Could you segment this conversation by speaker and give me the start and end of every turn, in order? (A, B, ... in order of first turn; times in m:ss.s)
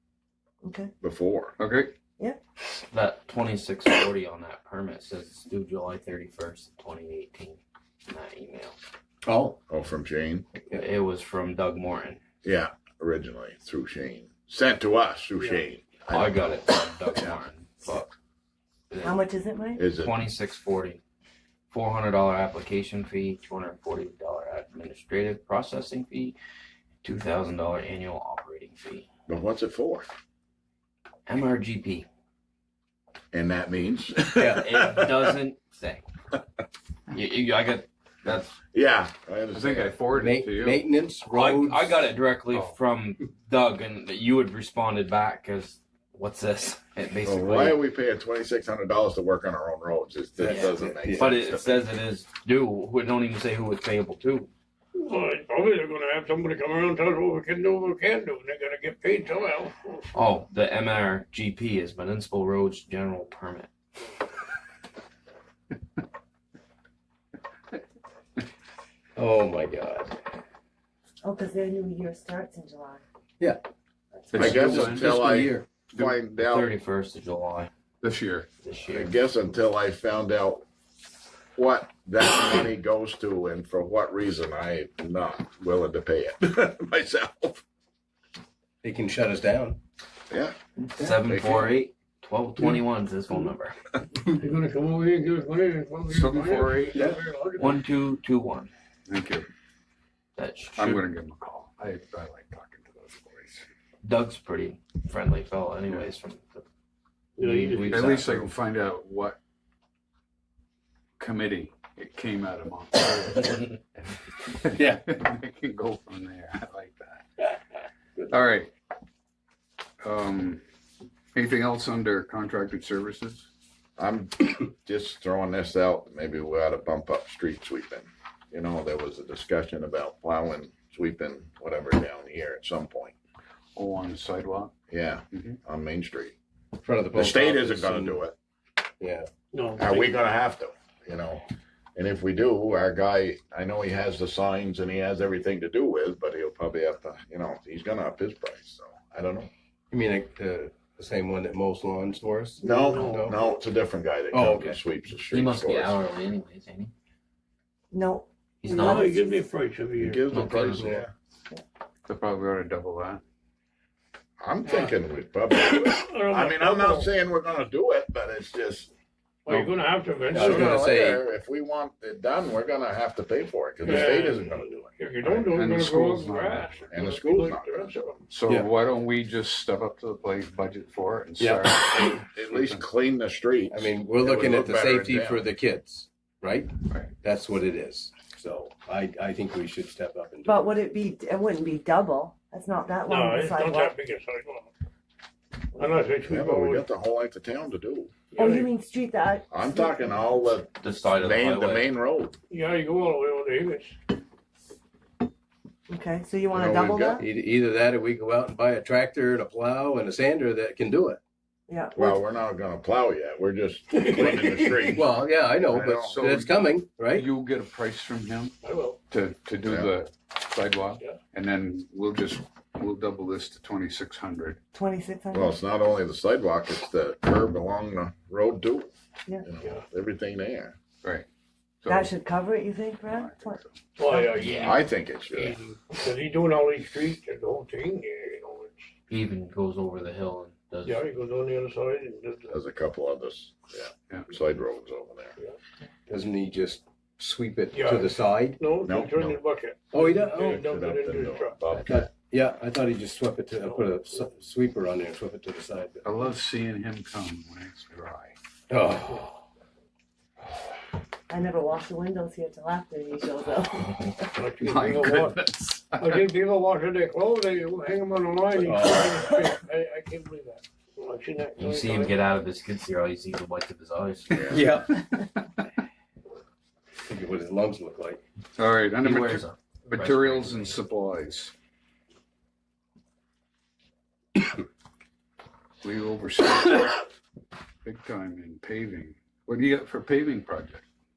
0:00.6-0:00.9 A
0:01.0-0:01.5 B
0:01.6-0:01.9 C
0:02.9-0:08.8 D
0:09.2-0:09.6 E
0:09.7-0:10.4 B
0:10.5-0:12.2 D
0:12.4-0:17.4 B
0:16.1-0:18.1 D
0:18.9-0:19.3 D
0:19.0-0:19.8 A
0:19.8-0:20.2 B
0:19.9-0:21.0 D
0:21.7-0:26.4 D
0:27.0-0:29.1 D
0:29.3-0:30.0 B
0:31.2-0:32.1 D
0:33.3-0:35.4 B
0:34.3-0:34.7 E
0:34.6-0:36.0 D
0:37.1-0:38.6 D
0:38.6-0:40.0 B
0:39.5-0:40.9 C
0:40.1-0:42.1 E
0:41.3-0:47.8 D
0:42.5-0:42.8 C
0:47.2-0:51.9 B
0:50.4-0:51.3 E
0:50.4-0:54.5 D
0:55.0-1:00.2 F
1:00.1-1:03.7 D
1:09.2-1:10.2 E
1:11.2-1:13.0 A
1:14.3-1:15.4 C
1:14.3-1:16.7 B
1:14.4-1:15.7 E
1:16.4-1:17.7 D
1:18.0-1:18.5 C
1:18.6-1:19.2 D
1:18.9-1:20.6 B
1:21.6-1:27.6 B
1:28.8-1:29.8 E
1:30.3-1:30.5 B
1:30.8-1:33.8 D
1:31.2-1:31.7 B
1:34.4-1:37.8 F
1:36.1-1:37.0 C
1:36.9-1:37.2 E
1:37.6-1:38.7 D
1:39.1-1:39.4 C
1:40.4-1:41.0 D
1:40.8-1:43.6 C
1:44.0-1:46.6 D
1:47.4-1:48.1 F
1:47.4-1:48.5 D
1:47.9-1:49.4 C
1:51.2-1:57.2 C
1:58.3-1:58.7 C
2:00.0-2:00.6 C
2:01.3-2:03.5 C
2:04.0-2:13.1 B
2:13.7-2:14.7 C
2:14.9-2:16.4 B
2:15.3-2:15.6 C
2:16.8-2:18.2 E
2:17.1-2:18.4 B
2:19.0-2:19.3 E
2:19.5-2:20.2 F
2:19.8-2:21.4 B
2:22.0-2:29.5 B
2:29.9-2:33.4 E
2:32.6-2:36.0 B
2:32.6-2:33.0 A
2:32.7-2:33.6 F
2:34.3-2:34.8 E
2:35.3-2:36.9 D
2:37.9-2:39.5 A
2:38.6-2:39.0 D
2:38.7-2:41.0 F
2:40.0-2:41.1 B
2:40.3-2:40.9 D
2:42.1-2:43.2 C
2:44.4-2:48.9 B
2:44.6-2:44.9 F
2:45.6-2:47.1 F
2:49.4-2:50.9 F
2:50.3-2:51.2 E
2:50.4-2:54.8 B
2:53.8-2:58.2 F
2:55.2-2:56.9 C
2:56.9-2:58.1 B
2:58.3-3:02.8 C
3:01.4-3:01.8 E
3:01.9-3:05.5 B
3:03.7-3:10.7 E
3:10.4-3:13.9 A
3:13.1-3:14.7 F
3:15.7-3:16.8 F
3:16.2-3:18.1 B
3:18.3-3:18.7 F
3:18.4-3:20.1 A
3:19.5-3:22.4 B
3:20.8-3:21.9 D
3:22.5-3:23.9 F
3:25.9-3:27.2 A
3:26.5-3:27.2 B
3:27.2-3:31.2 E
3:31.7-3:32.2 A
3:32.0-3:35.1 B
3:33.9-3:34.9 F
3:34.2-3:37.3 E
3:35.7-3:38.6 C
3:35.7-3:36.2 B
3:38.6-3:39.0 F
3:39.1-3:44.6 C
3:39.6-3:39.9 B
3:44.7-3:45.5 A
3:45.3-3:48.9 B
3:49.4-3:50.7 B
3:51.8-3:52.2 C
3:51.8-3:54.6 A
3:53.1-3:53.7 C
3:54.0-3:58.9 F
3:54.4-3:55.6 B
3:59.1-4:01.0 D
4:00.8-4:02.5 F
4:02.5-4:05.3 B
4:06.1-4:08.6 E
4:07.7-4:11.7 F
4:08.8-4:09.4 B
4:09.9-4:10.6 E
4:10.3-4:12.1 B
4:11.8-4:16.1 E
4:13.6-4:13.9 F
4:16.0-4:18.3 C
4:18.7-4:19.3 E
4:21.3-4:24.1 A
4:24.3-4:25.4 F
4:24.6-4:26.2 C
4:26.0-4:32.1 F
4:28.5-4:29.4 E
4:31.6-4:34.6 D
4:34.5-4:34.9 E
4:34.9-4:35.6 C
4:37.0-4:38.2 E
4:38.6-4:41.5 C
4:39.0-4:40.8 D
4:45.8-4:47.0 C
4:47.8-4:50.8 C